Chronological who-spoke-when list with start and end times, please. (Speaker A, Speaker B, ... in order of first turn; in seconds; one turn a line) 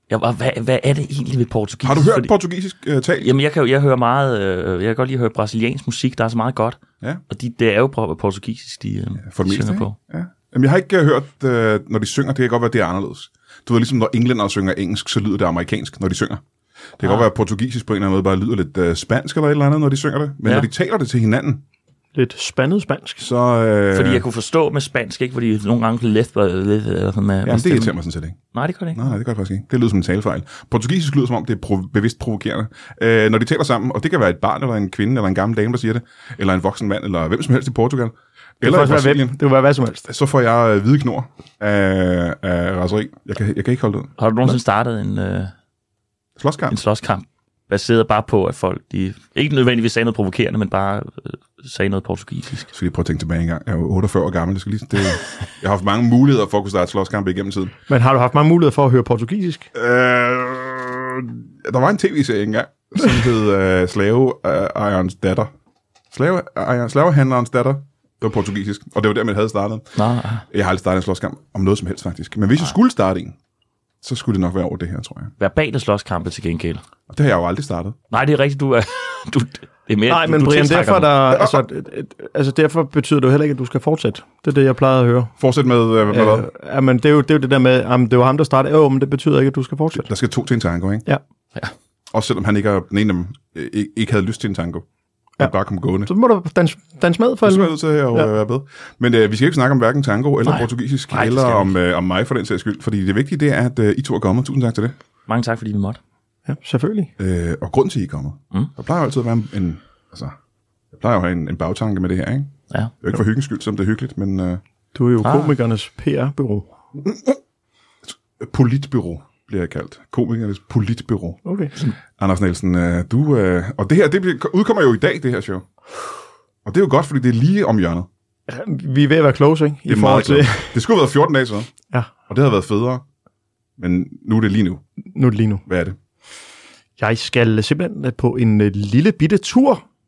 Speaker A: 0.1-2.3
Speaker B: 1.8-3.3
Speaker A: 3.2-6.8
Speaker A: 7.3-10.0
Speaker B: 9.2-16.4
Speaker B: 17.0-21.6
Speaker A: 17.0-17.3
Speaker C: 22.1-23.3
Speaker B: 23.2-24.2
Speaker A: 23.9-27.9
Speaker B: 27.4-28.4
Speaker A: 28.5-29.1
Speaker B: 28.9-39.4
Speaker C: 38.6-40.1
Speaker B: 40.1-44.1
Speaker A: 44.2-45.5
Speaker B: 46.4-46.8
Speaker A: 46.7-52.7
Speaker B: 52.7-57.8
Speaker C: 57.9-59.7
Speaker B: 59.7-65.5
Speaker B: 66.1-69.9
Speaker A: 70.0-70.5
Speaker B: 70.5-73.4
Speaker B: 74.0-75.3
Speaker A: 75.4-76.8
Speaker B: 77.1-78.0
Speaker A: 78.1-81.2
Speaker C: 80.1-85.3
Speaker B: 85.4-86.5
Speaker C: 86.1-90.1
Speaker B: 90.0-91.1
Speaker B: 92.1-94.8
Speaker B: 95.4-96.1
Speaker C: 96.0-98.3
Speaker B: 97.4-105.0
Speaker A: 100.5-101.8
Speaker A: 105.3-106.0
Speaker C: 106.5-107.1
Speaker B: 107.2-110.3
Speaker B: 110.9-114.6
Speaker C: 114.9-116.7
Speaker A: 115.2-115.5
Speaker B: 117.0-117.4
Speaker B: 118.1-121.4
Speaker C: 121.5-121.7
Speaker B: 122.2-125.7
Speaker B: 126.7-128.1
Speaker C: 128.5-130.8
Speaker B: 129.9-131.7
Speaker B: 132.3-133.0
Speaker B: 133.8-134.8
Speaker C: 135.1-135.6
Speaker B: 135.7-136.0
Speaker C: 137.0-139.8